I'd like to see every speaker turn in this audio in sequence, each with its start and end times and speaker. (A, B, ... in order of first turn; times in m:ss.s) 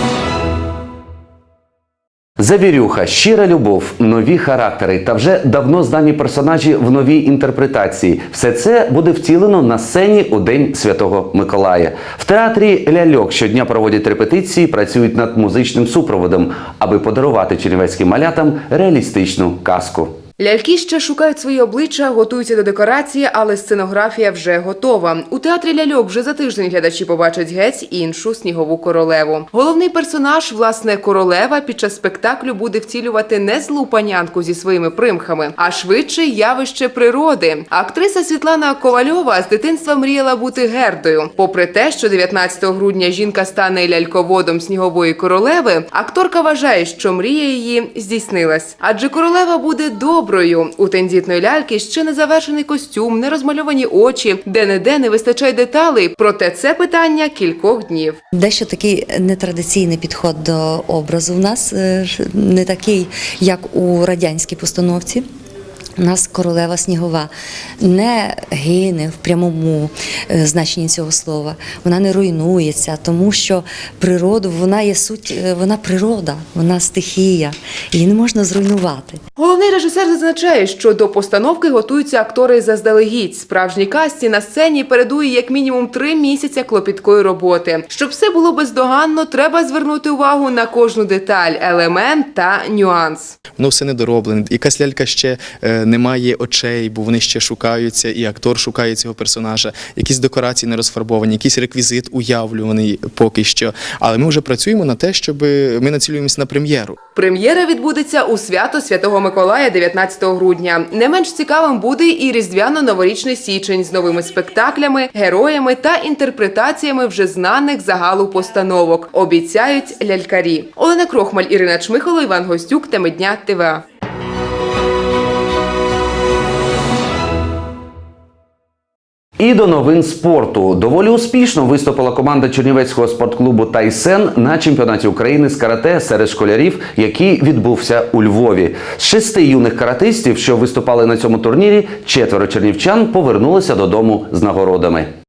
0:02.4-0:20.1 A
0:20.4-0:58.2 B
0:58.3-1:05.2 C
1:06.0-1:19.2 C
1:19.4-1:33.3 B
1:33.6-1:47.0 D
1:47.2-2:03.8 B
2:09.4-2:25.1 A